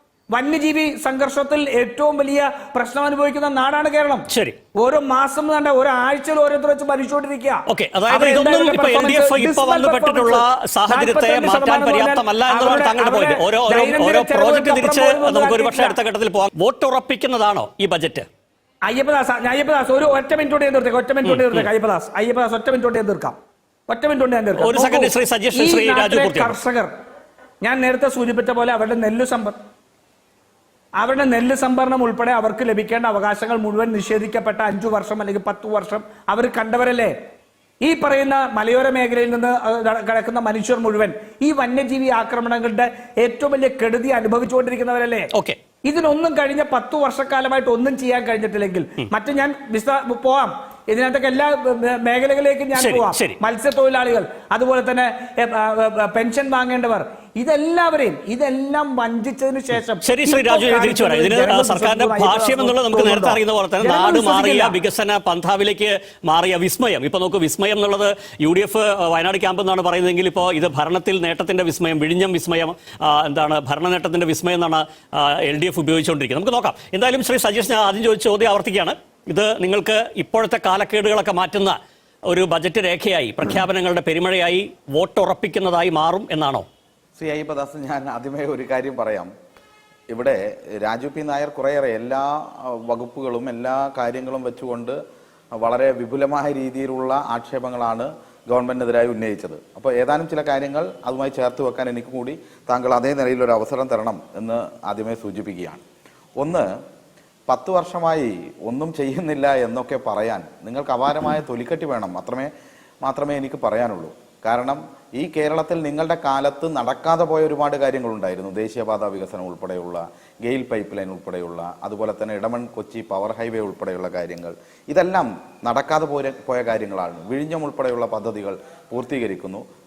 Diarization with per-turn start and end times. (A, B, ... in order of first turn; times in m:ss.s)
0:00.3-0:16.0 A
0:04.3-0:04.6 B
0:07.7-0:18.2 B
0:18.9-0:23.4 A
0:21.2-0:21.7 B
0:23.9-0:26.9 A
0:24.6-0:26.5 B
0:27.6-0:29.6 A
0:31.0-0:37.1 A
0:37.8-0:45.3 A
0:45.8-1:04.8 A
0:52.8-0:53.4 B
1:00.0-1:21.8 B
1:22.3-1:26.6 B
1:27.2-1:29.3 C
1:30.1-1:35.0 C
1:35.5-1:45.8 C
1:46.4-1:46.7 C
1:47.5-1:52.5 C
1:53.0-2:09.6 C